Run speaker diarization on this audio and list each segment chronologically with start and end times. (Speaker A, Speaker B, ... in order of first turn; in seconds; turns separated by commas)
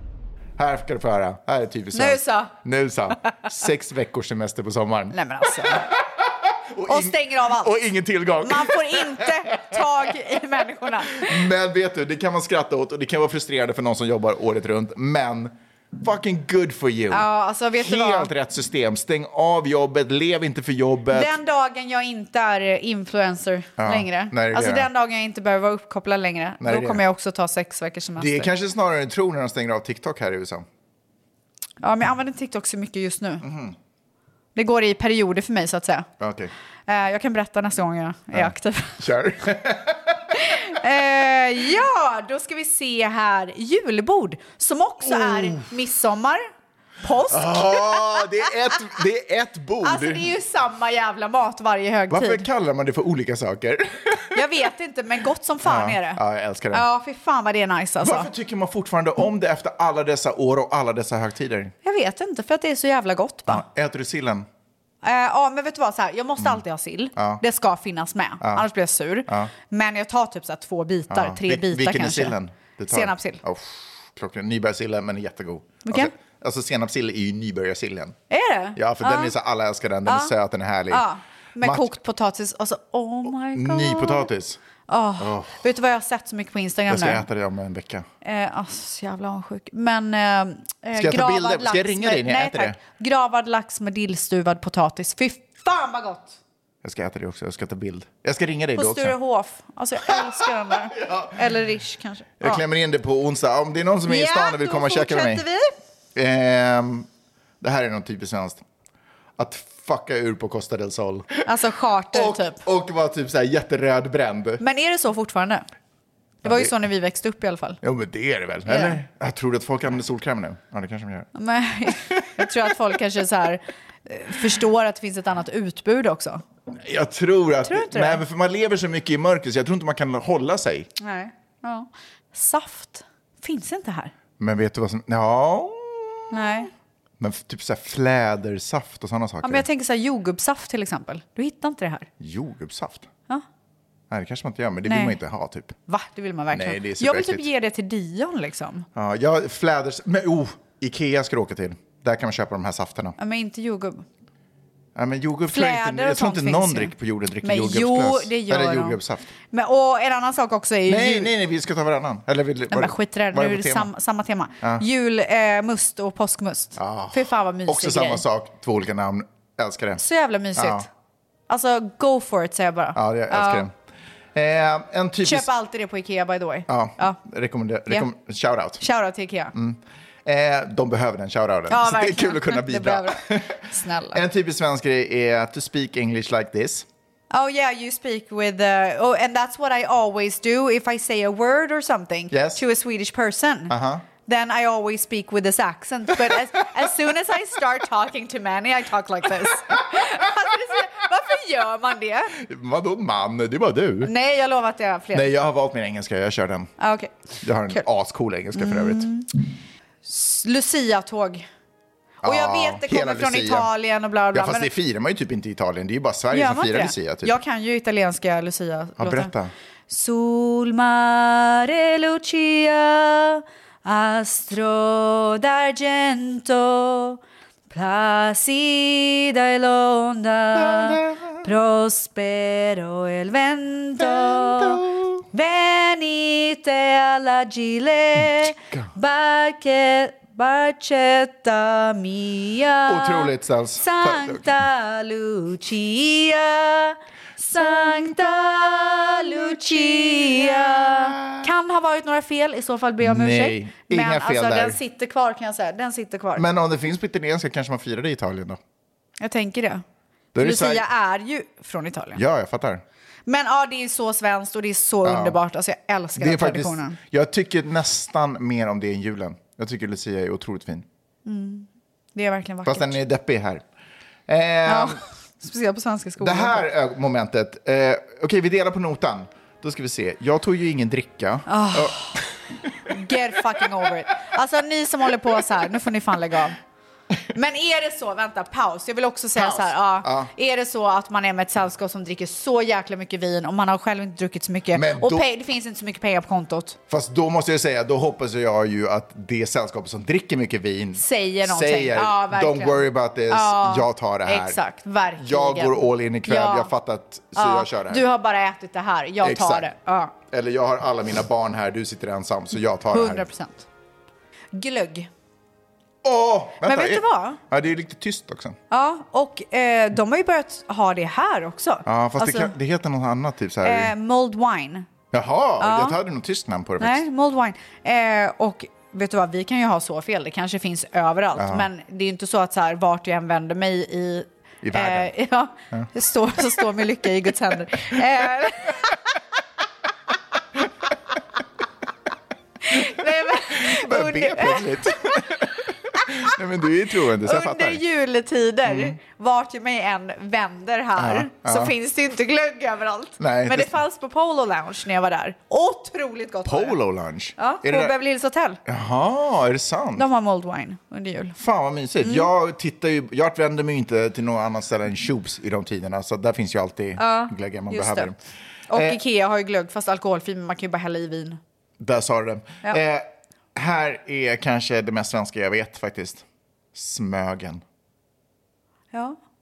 Speaker A: 0.6-9.8, Speaker B: 1.9-2.5, Speaker B: 5.1-5.9, Speaker B: 6.9-7.9, Speaker B: 8.4-11.5, Speaker A: 11.0-21.4, Speaker B: 17.1-18.3, Speaker B: 21.1-28.5, Speaker A: 23.8-24.9, Speaker A: 26.6-27.0, Speaker A: 28.2-30.6, Speaker B: 31.8-33.5, Speaker A: 33.4-33.8, Speaker B: 34.5-36.1, Speaker A: 36.2-36.5, Speaker B: 36.9-39.0, Speaker A: 38.3-40.8, Speaker B: 40.3-46.5, Speaker A: 45.0-45.7, Speaker B: 47.0-48.2, Speaker A: 47.3-50.3, Speaker B: 49.8-52.5, Speaker A: 52.1-54.5, Speaker B: 54.3-56.2, Speaker A: 55.6-56.9, Speaker B: 56.7-58.3, Speaker A: 58.0-61.7, Speaker B: 61.8-63.6, Speaker A: 63.5-64.5, Speaker B: 65.0-72.3, Speaker A: 67.2-67.4, Speaker A: 68.4-68.7, Speaker A: 69.3-69.5, Speaker A: 71.1-78.2, Speaker B: 72.9-73.4, Speaker B: 75.8-76.1, Speaker B: 78.3-79.3, Speaker A: 78.7-81.1, Speaker B: 80.0-80.3, Speaker B: 80.9-84.3, Speaker A: 81.6-81.9, Speaker A: 83.5-84.6, Speaker B: 84.9-87.2, Speaker A: 85.2-85.6, Speaker A: 86.9-88.1, Speaker B: 88.2-96.4, Speaker A: 90.9-92.8, Speaker A: 96.8-99.2, Speaker B: 98.8-102.6, Speaker A: 100.1-100.4, Speaker A: 100.9-101.3, Speaker A: 102.4-105.4, Speaker B: 104.1-105.7, Speaker A: 106.1-107.1, Speaker A: 107.6-108.6, Speaker A: 109.4-111.5, Speaker B: 111.4-112.6, Speaker A: 112.1-114.6, Speaker B: 114.6-115.6, Speaker B: 116.4-117.8, Speaker A: 116.4-116.7, Speaker A: 117.8-121.3, Speaker B: 118.7-119.0, Speaker B: 121.3-126.4, Speaker A: 121.9-122.6, Speaker A: 126.7-130.9, Speaker B: 127.7-128.2, Speaker B: 131.0-134.1, Speaker A: 134.4-136.6, Speaker B: 136.3-136.7, Speaker A: 137.2-139.7, Speaker B: 139.4-142.1, Speaker A: 142.2-143.1, Speaker A: 144.1-145.7, Speaker B: 144.8-145.2, Speaker B: 145.9-148.8, Speaker A: 146.5-147.4, Speaker A: 148.9-153.2, Speaker B: 153.2-154.0, Speaker A: 154.9-159.3, Speaker B: 155.5-159.0, Speaker B: 159.5-161.3, Speaker A: 160.9-163.9, Speaker B: 162.7-168.2, Speaker A: 166.8-170.0, Speaker B: 170.0-170.9, Speaker A: 170.5-170.9, Speaker B: 171.5-173.7, Speaker A: 172.9-173.7, Speaker A: 174.3-175.5, Speaker B: 175.2-177.2, Speaker A: 176.7-178.8, Speaker B: 178.8-179.5, Speaker A: 179.5-186.9, Speaker B: 181.7-184.2, Speaker B: 187.3-202.4, Speaker A: 192.3-192.6, Speaker A: 193.7-194.0, Speaker A: 202.3-204.1, Speaker B: 204.0-205.3, Speaker A: 205.1-206.7, Speaker B: 206.8-207.1, Speaker A: 207.4-209.1, Speaker B: 208.5-209.3, Speaker B: 210.0-211.5, Speaker A: 212.2-213.7, Speaker B: 212.2-214.7, Speaker A: 214.3-217.4, Speaker B: 216.3-219.3, Speaker A: 219.0-219.5, Speaker B: 219.9-256.4, Speaker A: 230.5-231.4, Speaker A: 234.0-235.2, Speaker A: 242.9-244.4, Speaker A: 249.6-251.5, Speaker A: 253.0-254.8, Speaker A: 256.3-258.6, Speaker B: 259.2-259.8, Speaker A: 260.3-260.8, Speaker B: 260.4-262.2, Speaker A: 262.1-262.8, Speaker B: 263.3-267.0, Speaker A: 265.0-265.4, Speaker A: 266.2-270.9, Speaker B: 271.2-273.0, Speaker A: 272.6-273.6, Speaker A: 274.3-275.0, Speaker B: 274.6-276.6, Speaker A: 276.2-282.3, Speaker B: 281.5-282.2, Speaker B: 282.9-286.6, Speaker B: 287.3-296.8, Speaker A: 289.3-290.3, Speaker A: 294.7-295.3, Speaker A: 296.9-304.6, Speaker B: 300.9-306.7, Speaker A: 305.2-308.1, Speaker B: 307.3-310.1, Speaker A: 309.2-309.7, Speaker A: 310.3-313.3, Speaker B: 312.9-313.6, Speaker B: 314.5-315.1, Speaker A: 316.0-318.6, Speaker B: 316.6-317.4, Speaker B: 318.7-322.5, Speaker A: 321.9-323.9, Speaker B: 323.6-324.9, Speaker A: 325.1-327.0, Speaker B: 325.6-326.0, Speaker B: 326.8-338.9, Speaker A: 331.4-331.6, Speaker A: 334.6-335.1, Speaker B: 342.6-345.3, Speaker A: 343.5-347.8, Speaker B: 347.2-356.8, Speaker A: 348.6-349.0, Speaker A: 350.9-351.7, Speaker A: 353.2-353.7, Speaker A: 356.4-357.9, Speaker B: 357.4-358.6, Speaker A: 358.6-360.1, Speaker B: 359.9-361.4, Speaker A: 361.4-368.2, Speaker B: 362.0-362.3, Speaker B: 367.0-368.1, Speaker B: 368.7-371.4, Speaker A: 368.7-369.0, Speaker A: 371.8-377.6